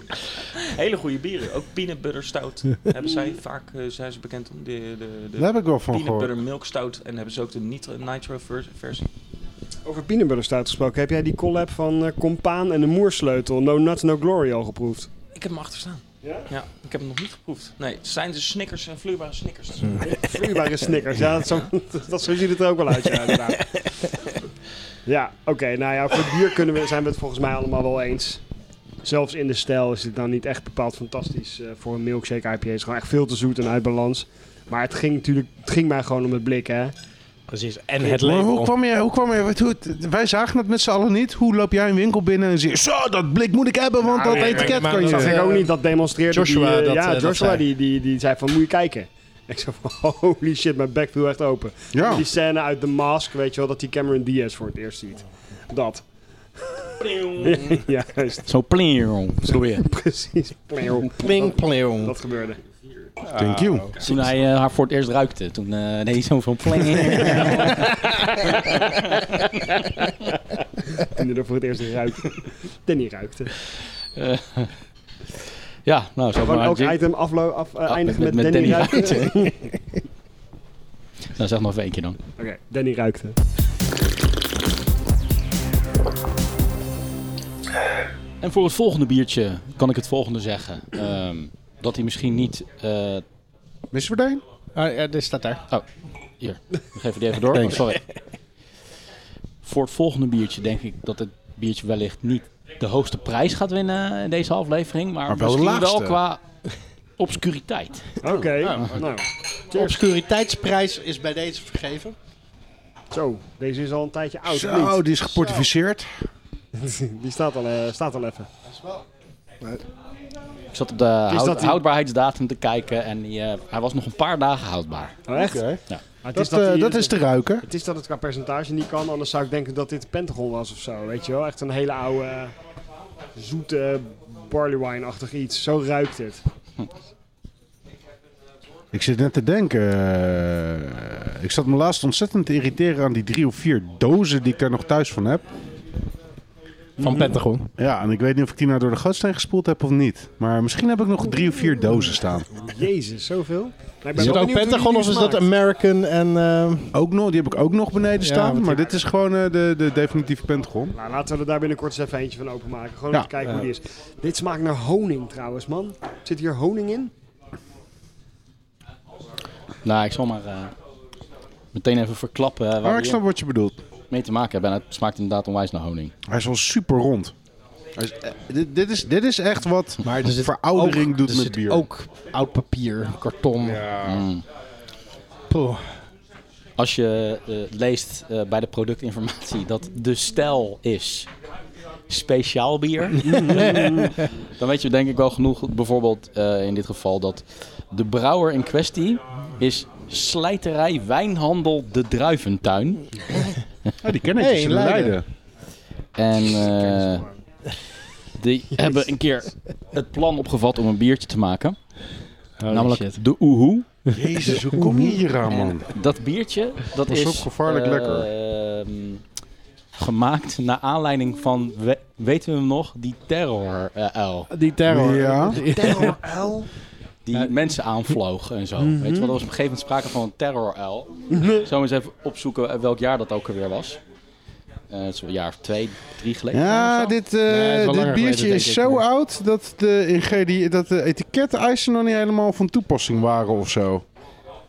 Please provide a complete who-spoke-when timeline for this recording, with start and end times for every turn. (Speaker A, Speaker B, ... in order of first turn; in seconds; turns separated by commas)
Speaker A: 0.2-9.1, Speaker B: 5.4-6.3, Speaker C: 9.8-15.1, Speaker A: 15.3-20.1, Speaker C: 16.2-16.5, Speaker D: 19.8-20.1, Speaker C: 20.0-23.9, Speaker C: 25.1-28.4, Speaker C: 29.0-36.9, Speaker D: 37.5-38.7, Speaker B: 38.1-45.4, Speaker C: 44.0-56.0, Speaker D: 44.3-45.7, Speaker D: 46.3-47.6, Speaker B: 51.9-52.2, Speaker C: 56.6-58.5, Speaker E: 58.5-59.9, Speaker C: 59.5-62.6, Speaker D: 61.1-62.1, Speaker D: 63.3-63.9, Speaker B: 63.3-63.9, Speaker E: 64.0-68.0, Speaker C: 67.4-70.3, Speaker C: 70.9-73.5, Speaker E: 74.1-74.7, Speaker E: 75.8-77.0, Speaker C: 76.4-79.7, Speaker E: 77.9-79.5, Speaker E: 81.3-82.2, Speaker C: 82.4-83.4, Speaker E: 88.4-93.2, Speaker B: 93.9-94.4, Speaker D: 94.7-95.6, Speaker E: 96.4-98.0, Speaker B: 97.5-97.9, Speaker E: 99.6-106.4, Speaker B: 105.3-106.2, Speaker E: 107.2-108.2, Speaker C: 108.2-110.0, Speaker D: 108.6-109.1, Speaker D: 109.7-112.2, Speaker C: 113.1-115.0, Speaker B: 114.5-116.2, Speaker D: 115.3-115.6, Speaker C: 116.7-118.5, Speaker D: 118.7-119.0, Speaker E: 120.7-125.2, Speaker C: 121.3-121.8, Speaker C: 125.3-125.7, Speaker B: 125.3-125.8, Speaker C: 126.2-132.5, Speaker B: 126.3-127.7, Speaker C: 133.3-136.4, Speaker B: 138.9-145.4, Speaker C: 147.0-147.3, Speaker D: 147.0-147.7, Speaker B: 147.8-152.5, Speaker C: 152.5-155.4, Speaker D: 154.2-156.9, Speaker B: 156.9-160.9, Speaker D: 158.2-158.8, Speaker C: 160.9-167.1, Speaker E: 169.8-170.7, Speaker E: 171.7-173.2, Speaker B: 172.8-173.8, Speaker E: 174.1-176.1, Speaker B: 176.2-177.3, Speaker B: 177.9-181.9, Speaker D: 180.0-183.9, Speaker B: 183.6-184.2, Speaker E: 184.0-184.4, Speaker D: 185.5-186.0, Speaker E: 186.8-191.3, Speaker E: 192.1-203.3, Speaker C: 193.2-194.2, Speaker B: 204.0-205.2, Speaker D: 204.4-205.2, Speaker E: 206.2-207.2, Speaker C: 206.5-207.3, Speaker E: 208.4-211.8, Speaker D: 212.6-213.2, Speaker E: 212.7-213.9, Speaker B: 214.1-215.9, Speaker E: 215.4-219.2, Speaker B: 217.1-218.3, Speaker E: 220.0-224.5, Speaker D: 224.5-226.2, Speaker B: 224.9-225.6, Speaker C: 225.6-226.7, Speaker E: 227.2-234.0, Speaker C: 228.8-229.3, Speaker C: 231.3-231.7, Speaker E: 234.9-237.1, Speaker B: 236.5-244.0, Speaker D: 237.5-239.0